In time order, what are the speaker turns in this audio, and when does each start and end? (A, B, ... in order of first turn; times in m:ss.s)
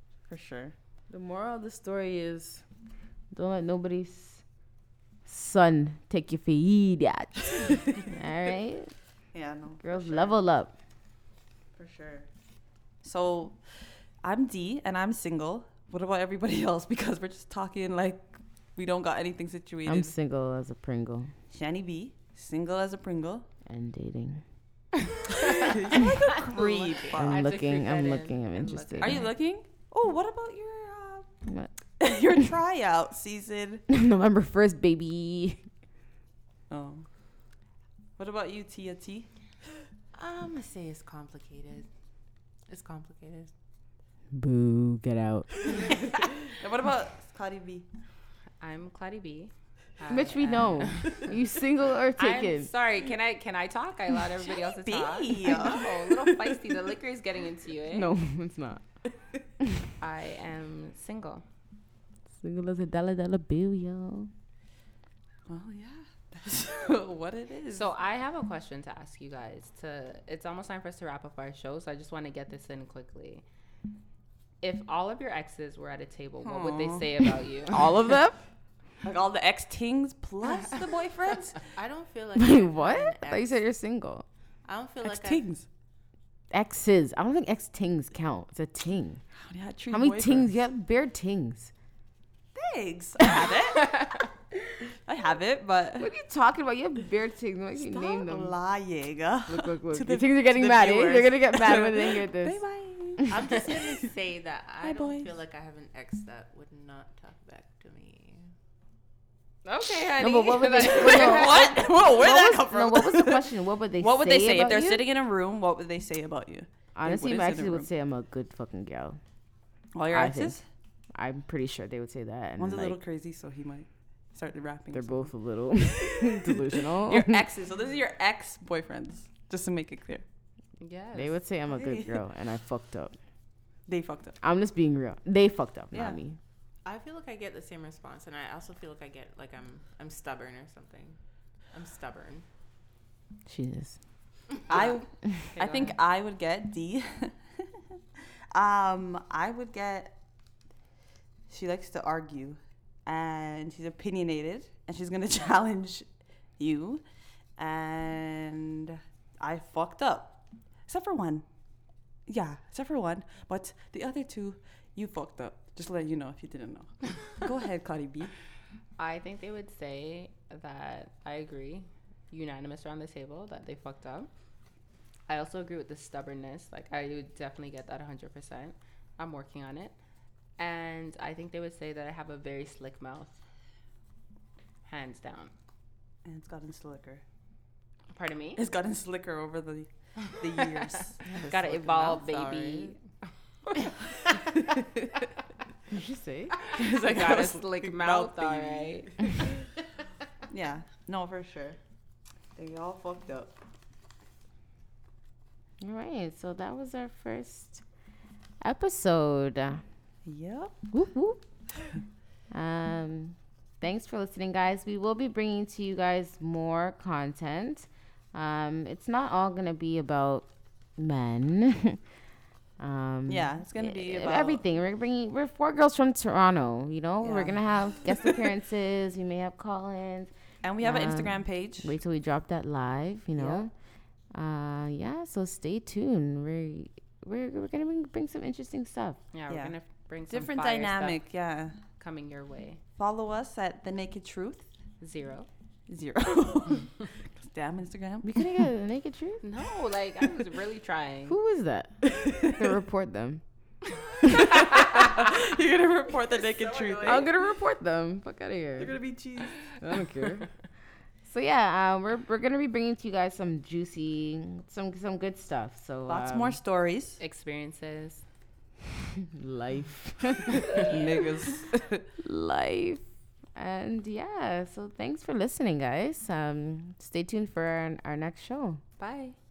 0:00.3-0:00.7 A
0:01.1-0:02.6 B
0:03.3-0:04.4 B
0:05.2-0:08.9 B
0:09.3-0:10.3 A
0:09.8-0:10.7 B
0:11.8-0:12.3 A
0:13.0-0:13.6 A
0:14.2-0:20.1 A
0:19.8-0:21.3 B
0:21.5-0:23.5 A
0:23.6-0:24.4 B
0:25.1-0:26.1 C
0:25.3-0:27.4 A
0:25.7-0:27.1 D
0:27.2-0:29.3 B
0:27.2-0:29.3 C
0:29.0-0:31.3 A
0:32.0-0:33.8 A
0:33.9-0:35.6 B
0:36.7-0:37.0 A
0:38.2-0:39.3 A
0:40.1-0:41.9 D
0:42.7-0:43.5 D
0:44.3-0:45.8 B
0:46.4-0:47.9 A
0:48.6-0:51.3 C
0:50.1-0:52.7 B
0:52.2-0:58.1 C
0:54.4-0:56.6 A
0:57.9-0:58.8 B
1:00.0-1:01.4 C
1:02.4-1:04.3 B
1:05.5-1:07.9 A
1:07.7-1:13.4 C
1:14.6-1:18.0 C
1:16.4-1:17.1 A
1:17.7-1:18.4 B
1:19.0-1:21.6 A
1:21.6-1:23.6 D
1:22.4-1:24.2 B
1:24.6-1:25.4 D
1:25.0-1:25.6 A
1:26.5-1:29.2 B
1:29.4-1:30.5 A
1:29.9-1:31.7 B
1:32.5-1:34.3 A
1:35.0-1:36.1 A
1:36.0-1:38.5 B
1:37.8-1:44.0 A
1:39.5-1:42.6 B
1:43.2-1:43.4 B
1:43.2-1:48.5 D
1:44.8-1:45.3 A
1:49.6-1:51.8 C
1:50.2-1:55.0 B
1:50.8-1:57.9 A
1:57.0-1:59.2 B
1:59.9-2:00.6 A
2:00.1-2:00.6 B
2:01.1-2:03.0 B
2:02.6-2:10.2 A
2:04.9-2:07.4 B
2:10.8-2:11.4 C
2:11.1-2:13.2 B
2:11.8-2:12.2 A
2:13.9-2:14.4 A
2:14.4-2:16.4 B
2:16.8-2:21.2 D
2:21.7-2:22.4 D
2:23.4-2:24.0 B
2:24.7-2:27.7 A
2:25.6-2:26.0 C
2:28.5-2:30.1 A
2:31.5-2:36.1 A
2:36.6-2:37.0 A
2:37.6-2:41.4 A
2:42.3-2:48.3 A
2:49.0-2:54.3 C
2:55.3-2:59.9 C
3:00.6-3:03.4 C
3:04.8-3:05.5 C
3:06.2-3:07.2 A
3:08.1-3:08.6 C
3:08.6-3:12.9 A
3:10.7-3:13.0 C
3:14.1-3:15.1 A
3:15.9-3:16.5 B
3:16.7-3:19.5 A
3:16.7-3:19.6 C
3:20.5-3:21.8 A
3:22.6-3:23.5 A
3:25.8-3:27.8 B
3:28.6-3:29.8 B
3:30.2-3:30.8 A
3:30.9-3:31.4 B
3:32.5-3:42.0 B
3:42.8-3:53.7 B
3:43.3-3:44.6 A
3:47.2-3:48.4 A
3:50.6-3:51.9 A
3:54.3-3:59.2 B
3:59.3-4:01.2 C
3:59.5-3:59.7 A
4:00.3-4:01.8 A
4:02.0-4:02.8 C
4:03.0-4:04.7 A
4:05.0-4:05.5 C
4:05.9-4:08.3 A
4:08.2-4:09.4 B
4:09.4-4:11.4 C
4:11.3-4:13.4 B
4:12.1-4:12.7 A
4:14.2-4:17.3 A
4:14.2-4:14.5 B
4:14.4-4:15.0 C
4:16.3-4:17.3 D
4:17.0-4:19.0 B
4:18.8-4:19.7 A
4:19.8-4:20.5 B
4:21.2-4:26.6 B
4:26.1-4:27.2 A
4:27.2-4:28.2 C
4:29.2-4:31.0 B
4:30.6-4:32.0 A
4:32.2-4:33.0 B
4:33.5-4:38.8 B
4:39.0-4:39.3 C